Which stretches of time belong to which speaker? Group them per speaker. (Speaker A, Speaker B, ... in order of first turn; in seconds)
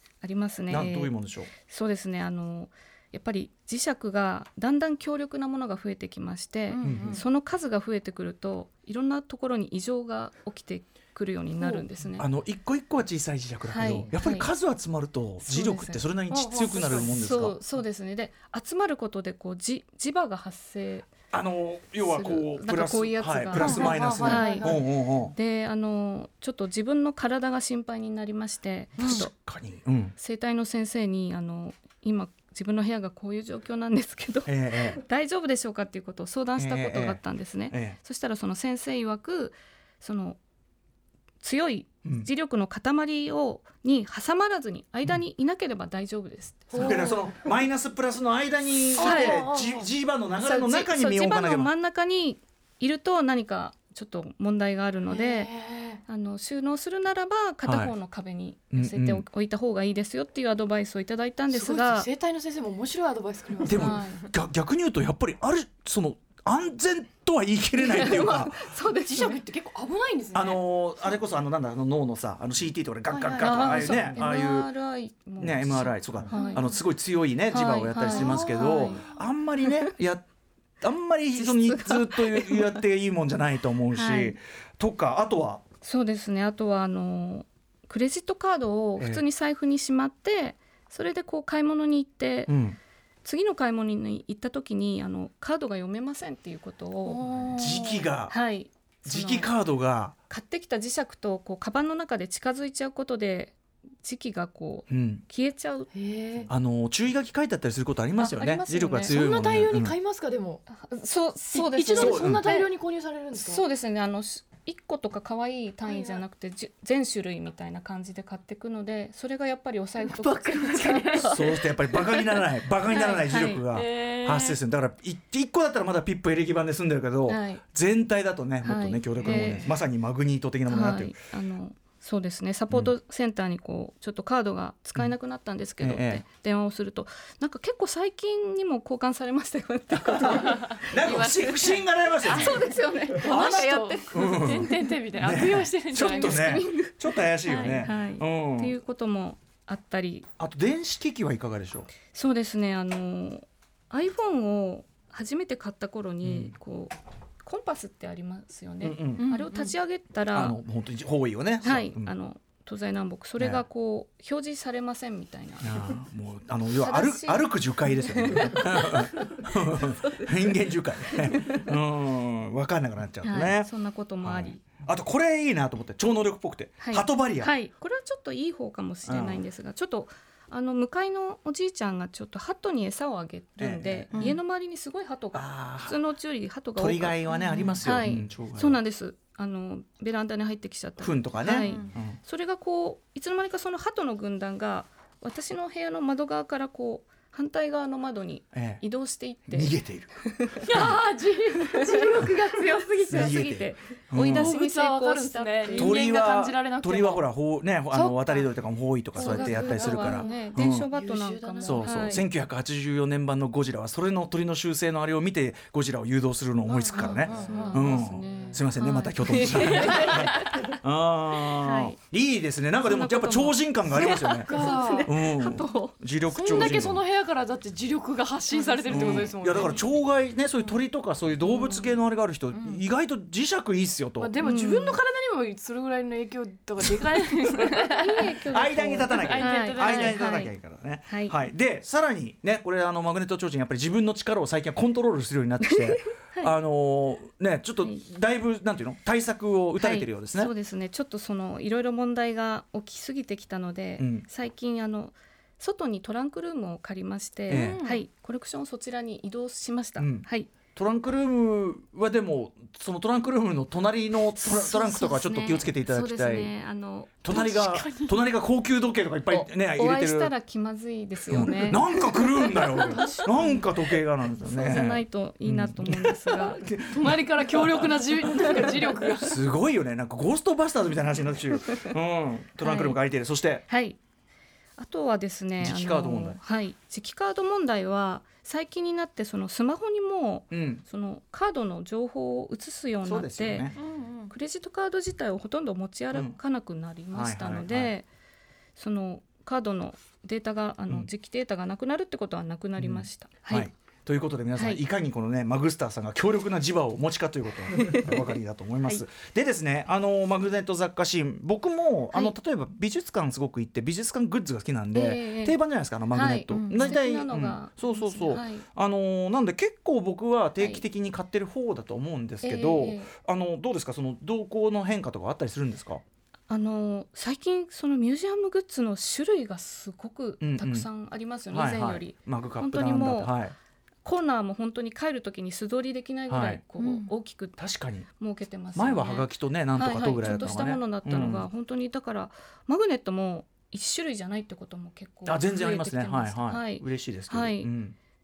Speaker A: 0.2-12.3, 13.7-14.5, 15.4-16.0, 17.1-21.1, 22.0-29.3, 30.2-40.4, 41.4-47.2, 49.0-49.5, 50.4-55.5, 56.0-62.1, 63.6-64.3, 67.8-69.4, 73.4-76.7, 77.5-79.0, 81.3-82.8, 83.9-84.4, 85.8-92.5, 93.2-97.2, 98.3-99.5, 100.3-105.9, 108.2-109.2, 110.7-112.7, 113.3-121.5, 122.9-123.6, 127.3-127.6, 128.6-129.7, 130.7-144.5, 145.9-150.3, 152.1-160.6, 161.6-166.0, 166.8-170.5, 171.1-171.7, 173.2-174.6, 176.8-200.9, 201.6-206.0, 209.2-212.2, 217.0-220.8, 221.4-222.0, 222.8-225.9, 228.5-229.8, 231.4-231.9, 234.4-235.0, 237.7-240.5, 241.1-241.4, 245.6-246.5, 249.8-260.5, 264.3-267.2, 269.3-273.6, 274.4-276.6, 282.6-283.0, 283.7-284.0, 284.8-293.7, 294.3-298.1, 298.8-303.7, 304.6-304.8, 307.8-308.1, 314.9-315.6, 316.1-318.6, 320.6-320.8, 322.4-323.1, 326.5-333.3, 334.0-337.6, 338.2-347.7
Speaker B: 0.7-1.5, 6.8-7.2, 12.2-17.6, 21.3-25.3, 29.0-30.1, 34.5-35.0, 36.6-38.0, 42.0-42.3, 46.7-51.7, 57.6-57.9, 58.7-59.2, 63.6-68.6, 70.3-74.7, 75.4-80.2, 80.8-85.6, 89.0-89.2, 92.5-92.8, 97.6-98.3, 99.0-100.1, 104.9-105.2, 106.5-110.0, 111.9-112.5, 121.2-131.1, 135.8-136.2, 140.1-142.6, 143.2-148.7, 150.4-151.9, 156.2-156.5, 158.8-159.3, 160.3-162.1, 165.6-173.7, 174.2-177.5, 179.0-179.4, 183.6-184.3, 185.3-186.0, 186.8-188.8, 191.0-192.2, 198.5-198.8, 199.5-201.0, 203.1-204.6, 205.7-210.9, 211.6-224.5, 225.0-227.0, 228.9-234.3, 238.5-250.5, 254.0-254.2, 257.5-257.8, 260.0-266.5, 267.2-270.3, 271.3-283.6, 285.6-286.4, 290.5-290.8, 293.0-293.8, 297.1-297.9, 302.8-326.0, 330.4-330.9, 331.5-333.5, 336.3-336.6, 337.6-338.1, 338.7-341.5, 345.2-347.9
Speaker C: 6.7-7.2, 11.6-11.8, 16.3-17.2, 23.5-24.8, 46.7-47.5, 48.9-49.9, 55.1-56.0, 61.5-64.1, 69.0-70.6, 73.1-74.3, 76.3-76.8, 78.0-79.2, 97.0-98.1, 105.9-106.5, 109.1-110.6, 111.5-113.6, 115.8-116.2, 120.0-121.6, 123.7-124.6, 129.2-129.7, 140.4-140.7, 142.2-146.7, 159.2-159.7, 184.1-184.4, 187.3-187.8, 191.6-191.9, 200.6-203.4, 204.2-207.2, 207.9-208.5, 209.1-212.2, 216.7-218.0, 219.4-220.6, 223.9-225.1, 226.3-229.9, 232.5-232.8, 234.2-238.4, 239.0-240.2, 257.5-258.0, 267.3-268.2, 272.5-273.4, 276.9-279.4, 293.8-294.3, 316.5-317.0, 336.8-337.1